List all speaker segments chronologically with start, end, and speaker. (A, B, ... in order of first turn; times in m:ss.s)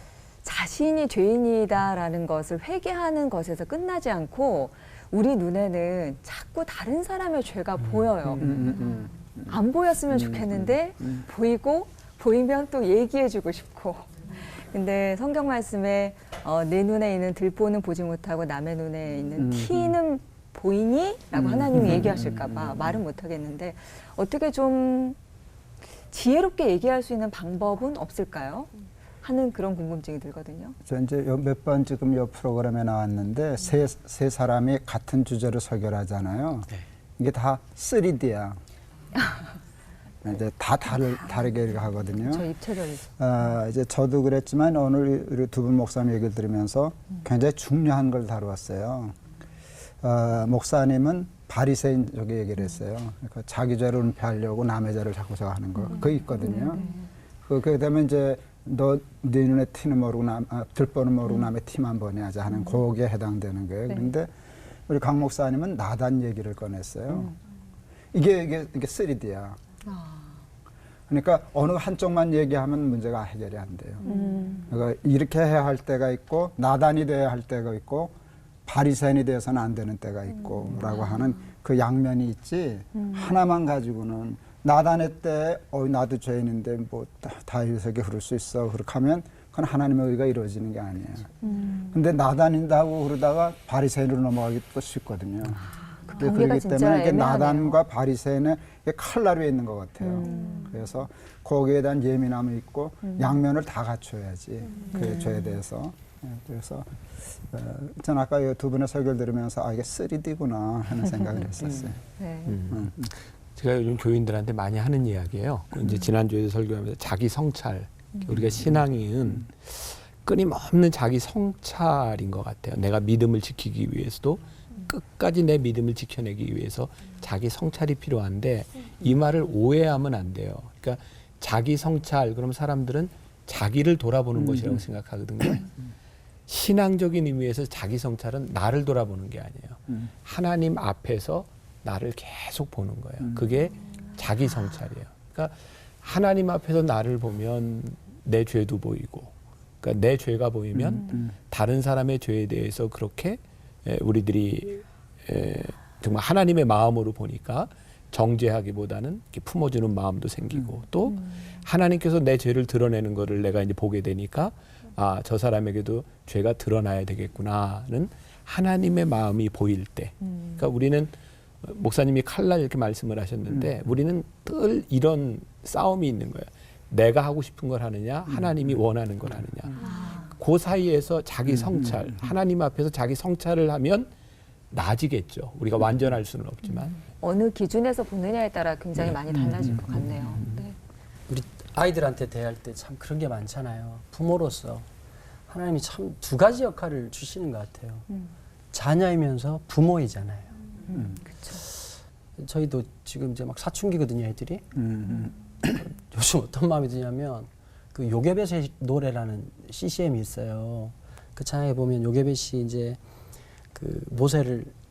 0:00.4-0:25.2 A
0:08.4-0:09.6 B
0:10.1-0:11.2 B
0:19.4-0:20.0 B
0:21.4-0:23.0 B
0:26.1-0:28.7 A
0:29.2-0:30.8 A
0:30.8-0:38.6 B
0:40.2-0:42.5 B
0:42.2-0:43.0 A
0:43.2-0:49.2 B
0:50.0-0:56.9 B
0:56.4-0:57.1 A
0:57.4-1:04.3 B
1:04.9-1:07.3 B
1:08.1-1:09.6 B
1:09.9-1:10.4 A
1:11.1-1:14.1 B
1:14.0-1:14.7 A
1:14.7-1:18.1 B
1:18.7-1:31.3 B
1:31.4-1:31.9 A
1:31.9-1:46.9 B
1:36.1-1:37.8 A
1:40.0-1:40.7 A
1:44.9-1:45.5 A
1:47.5-1:52.0 B
1:52.2-1:52.6 A
1:52.5-2:15.7 C
1:52.7-1:53.1 B
2:16.5-3:04.1 C
2:30.8-2:31.3 B
2:59.8-3:00.3 A
3:04.7-3:07.0 C
3:07.2-3:10.8 A
3:11.3-3:14.9 D
3:15.5-3:18.1 D
3:18.7-3:20.6 D
3:20.9-3:21.6 A
3:22.4-3:24.7 D
3:24.8-3:25.3 B
3:25.6-3:33.0 D
3:33.8-3:34.7 D